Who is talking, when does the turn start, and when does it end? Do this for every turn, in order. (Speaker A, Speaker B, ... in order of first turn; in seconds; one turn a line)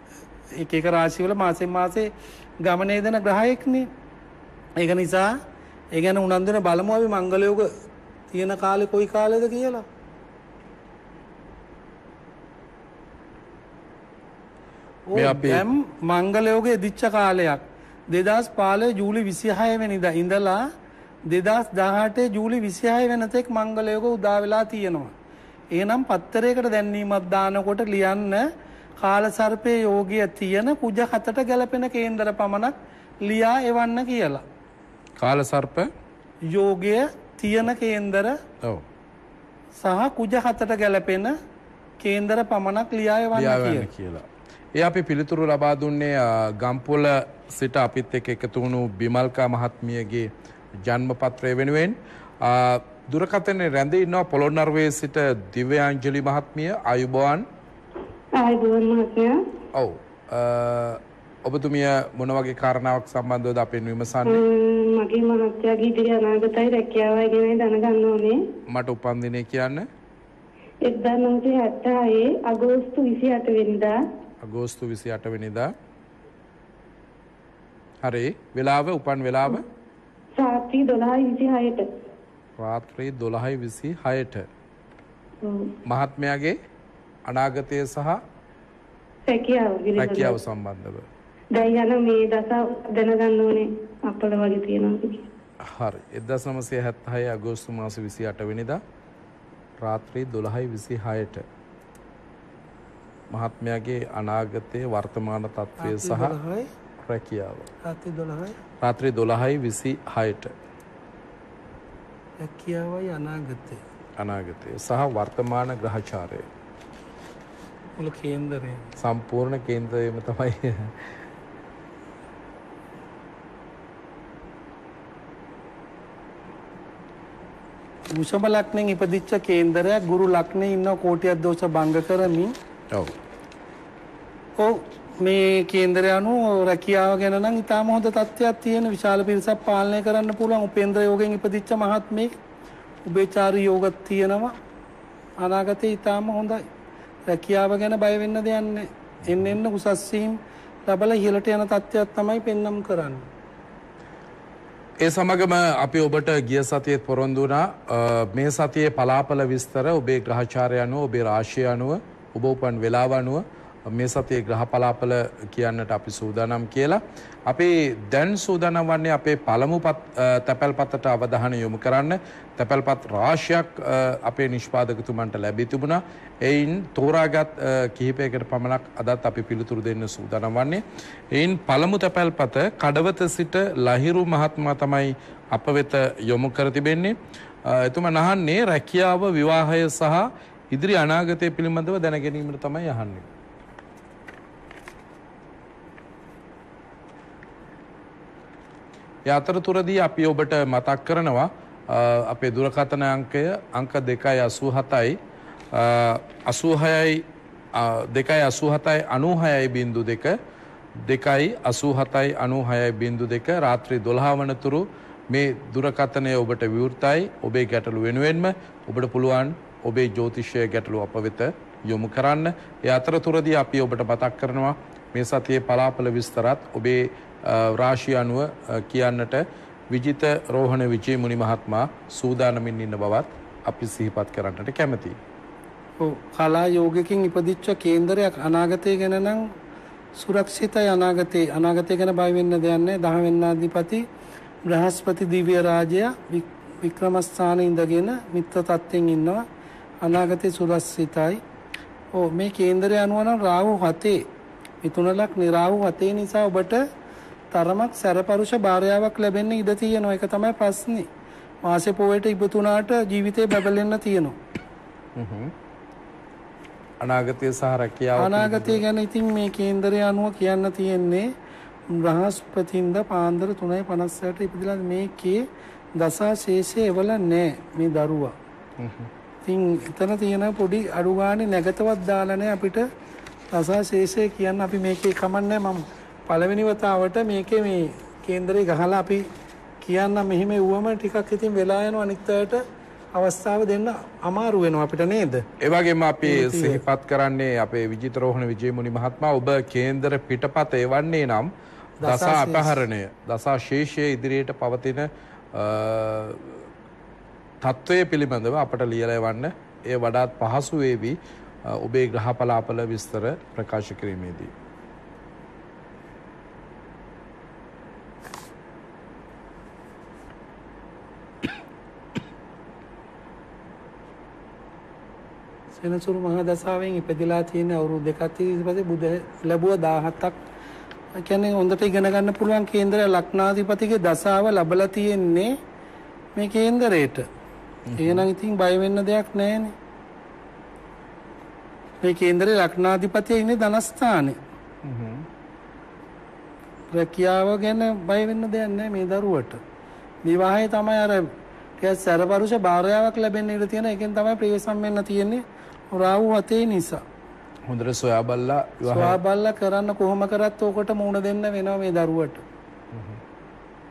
Speaker A: 0.6-2.1
Speaker A: 2.6-3.9
Speaker A: 4.8-5.3
Speaker A: 5.9-7.7
Speaker A: 8.3-9.9
Speaker A: 15.1-20.7
Speaker B: 15.2-15.7
Speaker A: 21.3-25.1
Speaker A: 25.7-28.5
Speaker A: 29.0-34.4
Speaker B: 35.2-35.9
Speaker A: 36.5-38.4
Speaker A: 39.8-41.4
Speaker A: 42.0-43.9
Speaker B: 43.3-57.5
Speaker C: 58.4-59.4
Speaker B: 59.7-64.4
Speaker C: 64.3-68.4
Speaker B: 68.7-69.9
Speaker C: 70.8-74.0
Speaker B: 74.4-75.7
Speaker B: 78.0-79.6
Speaker C: 80.4-81.9
Speaker B: 82.6-84.5
Speaker C: 85.4-85.7
Speaker B: 85.8-86.6
Speaker B: 87.3-88.2
Speaker C: 89.3-90.4
Speaker B: 90.0-91.1
Speaker C: 91.5-95.2
Speaker B: 95.6-98.8
Speaker B: 99.8-101.5
Speaker B: 103.3-106.4
Speaker A: 105.8-106.7
Speaker B: 107.0-107.7
Speaker A: 107.8-108.6
Speaker B: 108.8-110.5
Speaker A: 112.4-113.8
Speaker B: 114.2-116.5
Speaker A: 118.0-118.9
Speaker B: 119.0-121.1
Speaker A: 128.2-132.5
Speaker A: 134.6-142.3
Speaker A: 143.1-144.6
Speaker A: 145.4-146.6
Speaker A: 147.3-153.2
Speaker B: 155.0-193.3
Speaker B: 199.3-205.2
Speaker B: 205.7-210.4
Speaker B: 211.0-235.2
Speaker A: 236.0-239.5
Speaker A: 240.2-244.1
Speaker A: 244.7-249.5
Speaker A: 250.0-251.4
Speaker A: 252.1-254.2
Speaker A: 254.8-256.8
Speaker A: 257.5-261.1
Speaker A: 261.6-264.4
Speaker B: 265.2-265.5
Speaker B: 267.0-268.8
Speaker A: 268.2-271.3
Speaker A: 271.9-278.3
Speaker B: 278.8-279.1
Speaker A: 279.4-282.9
Speaker A: 283.5-289.3
Speaker A: 289.8-295.4
Speaker B: 295.6-301.5
Speaker A: 296.2-296.8
Speaker A: 302.0-302.8
Speaker B: 302.0-306.7
Speaker B: 307.6-314.5
Speaker A: 325.8-330.4
Speaker A: 331.2-335.6
Speaker A: 336.4-337.3
Speaker B: 337.9-338.3
Speaker A: 338.0-339.7
Speaker A: 342.0-344.4
Speaker B: 344.8-345.3
Speaker A: 346.9-349.6
Speaker A: 350.2-357.0
Speaker B: 357.7-359.2
Speaker A: 358.9-362.4
Speaker B: 362.9-363.2